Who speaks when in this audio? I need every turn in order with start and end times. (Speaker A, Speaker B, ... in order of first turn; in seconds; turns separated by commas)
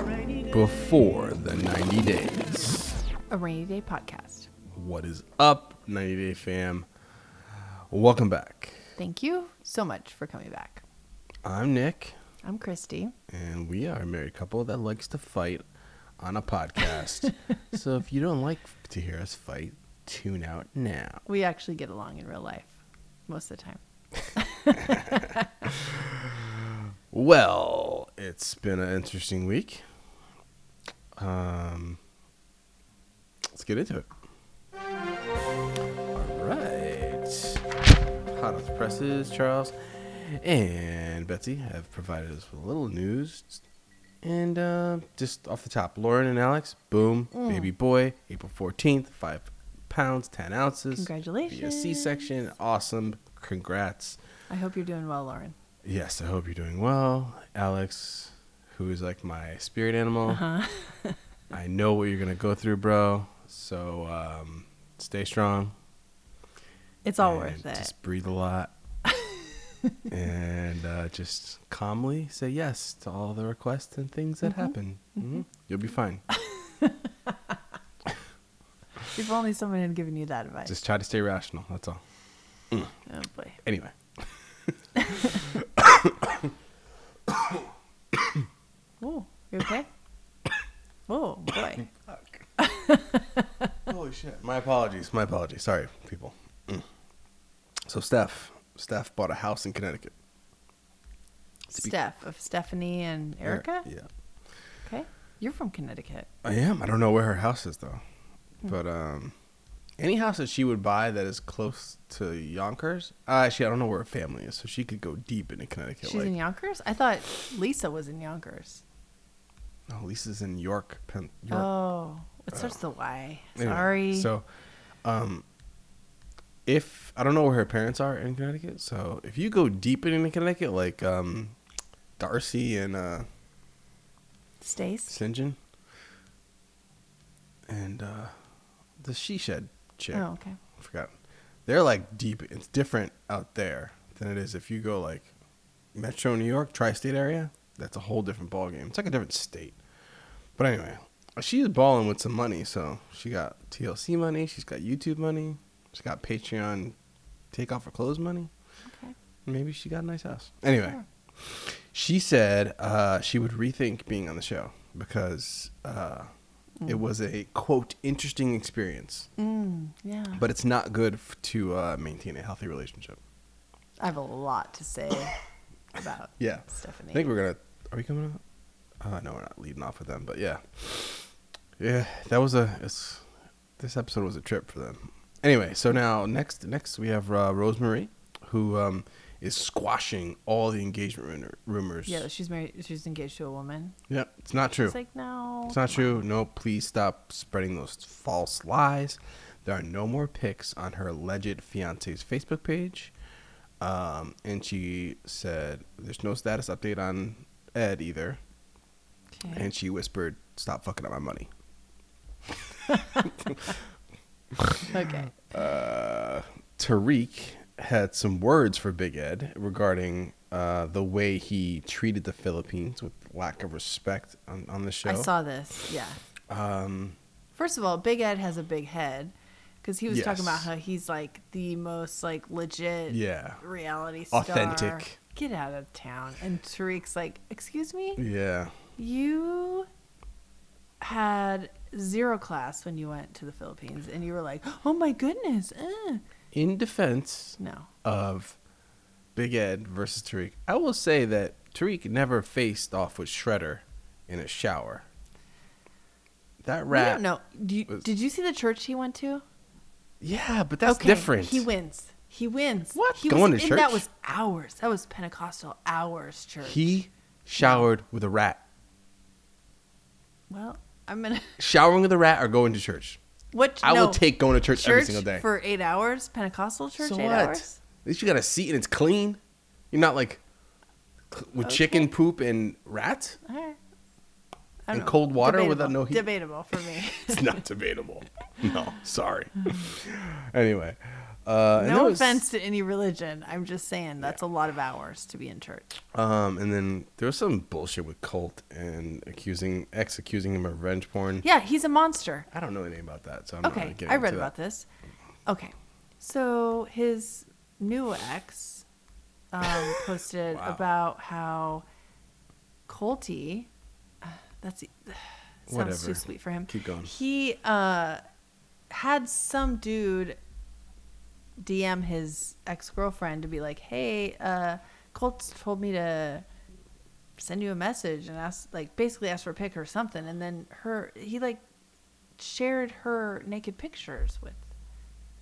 Speaker A: 0.5-3.0, Speaker B: 3.3-4.5, Speaker A: 4.7-6.9, Speaker A: 7.9-8.9, Speaker B: 9.0-10.8, Speaker A: 11.4-12.2, Speaker B: 12.4-13.1, Speaker A: 13.3-15.6, Speaker A: 16.2-21.2, Speaker B: 21.3-23.8, Speaker B: 24.3-25.7, Speaker A: 24.7-29.9, Speaker A: 31.2-32.0, Speaker A: 33.5-34.1, Speaker A: 36.1-37.6, Speaker A: 38.3-43.6, Speaker A: 44.2-54.2, Speaker B: 47.3-47.7, Speaker B: 50.9-52.3, Speaker B: 54.5-55.5, Speaker A: 55.8-60.4, Speaker B: 60.3-61.2, Speaker A: 61.5-65.8, Speaker B: 67.0-67.9, Speaker A: 67.2-68.7, Speaker B: 69.1-70.0, Speaker A: 70.1-76.2, Speaker B: 74.4-75.4, Speaker B: 76.3-77.5, Speaker B: 79.1-80.7, Speaker A: 80.7-82.0, Speaker B: 83.1-83.6, Speaker A: 83.6-84.7, Speaker B: 85.0-85.4, Speaker A: 85.2-86.5, Speaker A: 87.3-88.4, Speaker B: 89.0-89.9, Speaker B: 91.1-91.8, Speaker A: 91.8-92.4, Speaker B: 92.6-93.7, Speaker A: 93.9-96.9, Speaker A: 97.8-100.1, Speaker B: 101.7-103.9, Speaker A: 103.4-104.1, Speaker B: 104.8-106.3, Speaker A: 106.4-108.0, Speaker A: 108.6-109.3, Speaker A: 110.0-116.3, Speaker B: 116.0-118.8, Speaker A: 119.9-121.7, Speaker B: 121.5-124.3, Speaker A: 123.5-124.5, Speaker A: 125.0-125.4, Speaker A: 126.7-131.6, Speaker A: 132.2-133.3, Speaker B: 134.6-135.1, Speaker A: 135.1-135.6, Speaker A: 137.7-138.3, Speaker A: 139.0-141.1, Speaker B: 140.1-140.6, Speaker A: 141.7-145.3, Speaker A: 145.9-149.8, Speaker A: 150.6-156.9, Speaker A: 157.5-158.5, Speaker B: 158.9-159.1, Speaker A: 159.4-166.3, Speaker A: 166.8-169.3, Speaker B: 169.4-170.4, Speaker A: 170.3-173.2, Speaker B: 174.0-175.4, Speaker B: 175.9-177.3, Speaker A: 176.4-178.4, Speaker A: 179.0-183.2, Speaker A: 183.8-192.2, Speaker B: 192.1-193.9, Speaker A: 194.1-195.0, Speaker B: 194.8-196.2, Speaker A: 195.7-203.1, Speaker A: 203.8-208.4, Speaker B: 209.3-209.7, Speaker A: 209.5-211.5, Speaker A: 213.2-213.7, Speaker A: 214.6-214.8, Speaker B: 214.9-215.4, Speaker A: 215.4-225.3, Speaker B: 225.0-226.2, Speaker A: 226.5-227.2, Speaker B: 227.5-238.2, Speaker A: 230.1-230.7, Speaker A: 233.1-233.6, Speaker A: 234.3-235.2, Speaker A: 238.2-238.8, Speaker B: 239.0-239.9, Speaker B: 241.0-246.2, Speaker A: 246.5-248.6, Speaker B: 247.6-247.9, Speaker A: 249.3-255.1, Speaker A: 256.6-257.2, Speaker B: 256.9-259.4, Speaker A: 260.2-261.7, Speaker B: 260.8-266.9, Speaker A: 262.9-264.0, Speaker A: 266.6-268.6, Speaker B: 267.6-267.8, Speaker B: 270.5-271.6, Speaker A: 271.6-273.2, Speaker B: 273.5-277.8, Speaker A: 273.8-275.4, Speaker A: 277.0-279.4, Speaker A: 279.9-280.4, Speaker A: 281.3-283.4, Speaker B: 281.6-282.1, Speaker B: 283.4-283.8, Speaker B: 284.8-287.6, Speaker A: 284.9-286.3, Speaker A: 287.3-292.4, Speaker B: 291.8-295.9, Speaker A: 296.1-301.4, Speaker B: 301.4-302.5, Speaker A: 302.5-304.5, Speaker B: 303.6-304.9, Speaker B: 305.4-308.8, Speaker B: 309.5-311.9, Speaker A: 309.8-310.8, Speaker B: 312.9-313.7, Speaker B: 314.2-318.2, Speaker A: 315.7-317.1, Speaker B: 318.9-320.4, Speaker B: 321.6-326.4, Speaker B: 327.4-331.6, Speaker B: 332.4-334.7